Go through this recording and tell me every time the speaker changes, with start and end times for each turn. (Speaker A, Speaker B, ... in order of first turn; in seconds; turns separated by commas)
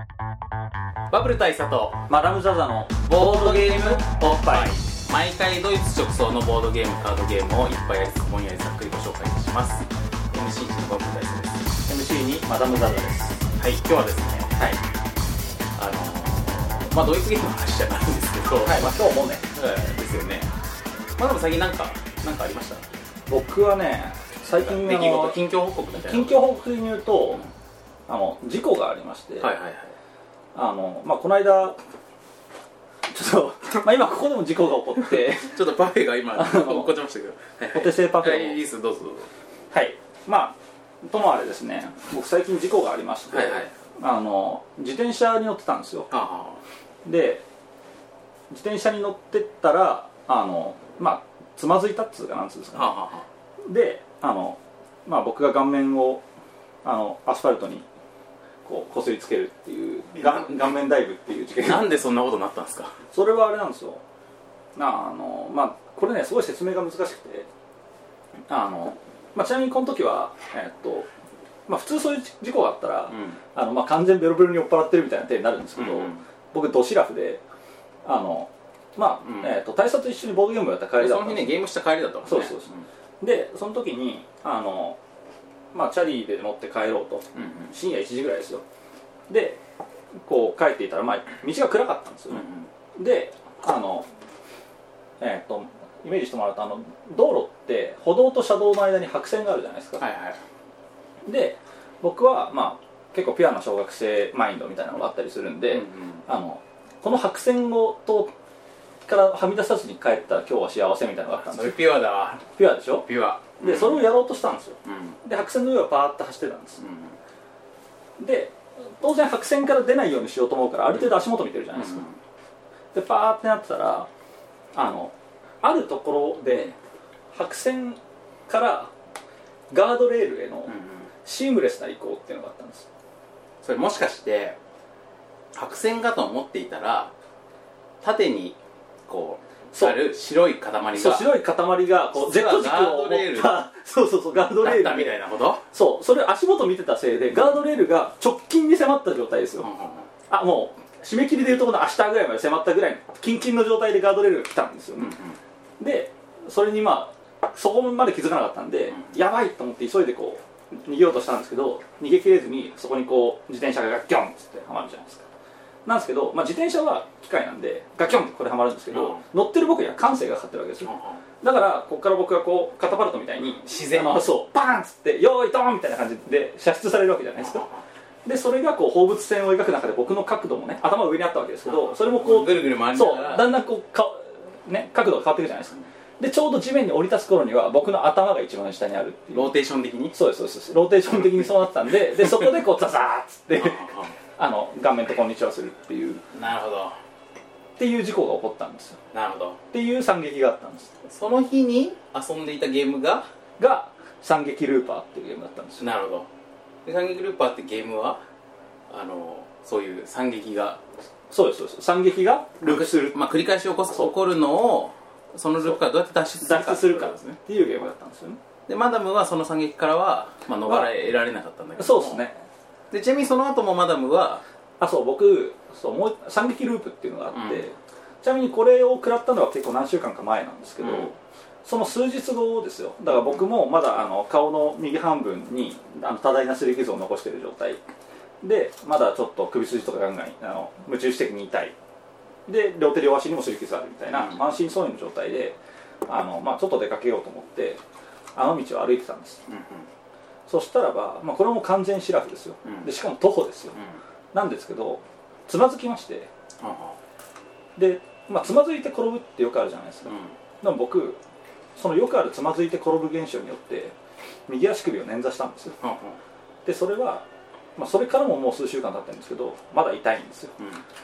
Speaker A: 1.1-2.0, Speaker B: 2.1-4.7, Speaker A: 3.1-11.7, Speaker B: 11.9-13.4, Speaker A: 13.6-14.5, Speaker A: 15.8-20.5, Speaker B: 18.6-19.4, Speaker A: 21.2-22.8, Speaker B: 23.3-25.4, Speaker A: 24.5-26.4, Speaker B: 26.1-27.4, Speaker B: 28.1-29.5, Speaker A: 29.4-29.9, Speaker B: 30.5-31.8, Speaker B: 33.1-35.6, Speaker A: 35.3-39.3, Speaker B: 36.3-36.9, Speaker B: 37.7-38.6, Speaker B: 39.7-46.1, Speaker A: 43.3-43.7, Speaker A: 46.1-46.6, Speaker B: 47.0-47.4, Speaker B: 48.5-53.0, Speaker A: 52.7-53.2, Speaker B: 53.6-56.2, Speaker B: 56.8-57.9, Speaker B: 58.6-62.0, Speaker A: 60.2-60.5, Speaker A: 61.6-63.0, Speaker B: 63.1-64.0, Speaker B: 64.8-67.5, Speaker B: 68.5-71.1, Speaker B: 71.7-77.4, Speaker A: 73.1-73.4, Speaker A: 75.8-76.2, Speaker B: 78.0-81.5, Speaker A: 79.2-79.5, Speaker A: 81.0-82.8, Speaker B: 82.2-82.6, Speaker B: 83.2-85.0, Speaker B: 85.7-88.6, Speaker A: 87.3-87.7, Speaker B: 89.3-89.6, Speaker B: 90.2-94.1, Speaker A: 92.3-92.7, Speaker B: 95.2-100.0, Speaker A: 100.0-100.4, Speaker B: 101.2-108.3, Speaker A: 105.7-106.2, Speaker B: 109.0-111.8, Speaker A: 111.5-114.1, Speaker B: 112.5-113.1, Speaker B: 113.6-116.8, Speaker A: 114.8-115.2, Speaker A: 116.8-117.1, Speaker B: 118.2-122.0, Speaker A: 121.8-122.1, Speaker B: 122.9-124.1, Speaker B: 124.7-126.8, Speaker B: 127.3-128.9, Speaker B: 129.7-130.7, Speaker A: 130.7-131.1, Speaker B: 131.2-132.9, Speaker A: 133.6-134.6, Speaker A: 135.5-137.1, Speaker A: 138.0-138.6, Speaker A: 139.1-141.3, Speaker B: 139.7-140.0, Speaker B: 140.9-145.2, Speaker A: 142.1-143.6, Speaker A: 144.6-145.6, Speaker B: 145.7-149.7, Speaker A: 149.6-150.1, Speaker B: 150.3-155.1, Speaker A: 155.0-155.4, Speaker B: 155.8-165.2, Speaker B: 165.8-177.7, Speaker A: 168.9-169.2, Speaker A: 170.8-171.2, Speaker A: 173.6-174.2, Speaker A: 177.4-177.8, Speaker B: 178.2-189.5, Speaker A: 182.1-183.6, Speaker A: 189.3-190.2, Speaker B: 190.1-196.2, Speaker A: 193.6-194.1, Speaker A: 196.3-196.9, Speaker B: 197.8-199.0, Speaker A: 199.1-199.6, Speaker B: 199.7-200.9, Speaker A: 201.0-203.3, Speaker B: 203.6-205.8, Speaker A: 205.8-206.3, Speaker A: 206.8-208.2, Speaker A: 208.9-210.8, Speaker B: 211.3-213.2, Speaker A: 212.6-217.4, Speaker B: 216.4-218.4, Speaker A: 218.7-222.2, Speaker B: 220.6-220.9, Speaker B: 221.8-222.4, Speaker A: 222.9-224.4, Speaker B: 224.8-237.8, Speaker A: 227.3-227.6, Speaker A: 230.8-231.1, Speaker A: 233.1-233.4, Speaker B: 238.4-241.7, Speaker B: 242.5-247.8, Speaker A: 244.1-244.4, Speaker B: 248.3-249.4, Speaker A: 249.5-249.9, Speaker B: 250.5-253.8, Speaker A: 252.6-252.9, Speaker B: 254.3-256.3, Speaker A: 256.6-257.0, Speaker B: 257.8-261.2, Speaker A: 260.1-260.3, Speaker B: 261.8-263.9, Speaker B: 264.5-265.7, Speaker A: 265.8-266.2, Speaker B: 266.6-267.2, Speaker B: 267.8-270.5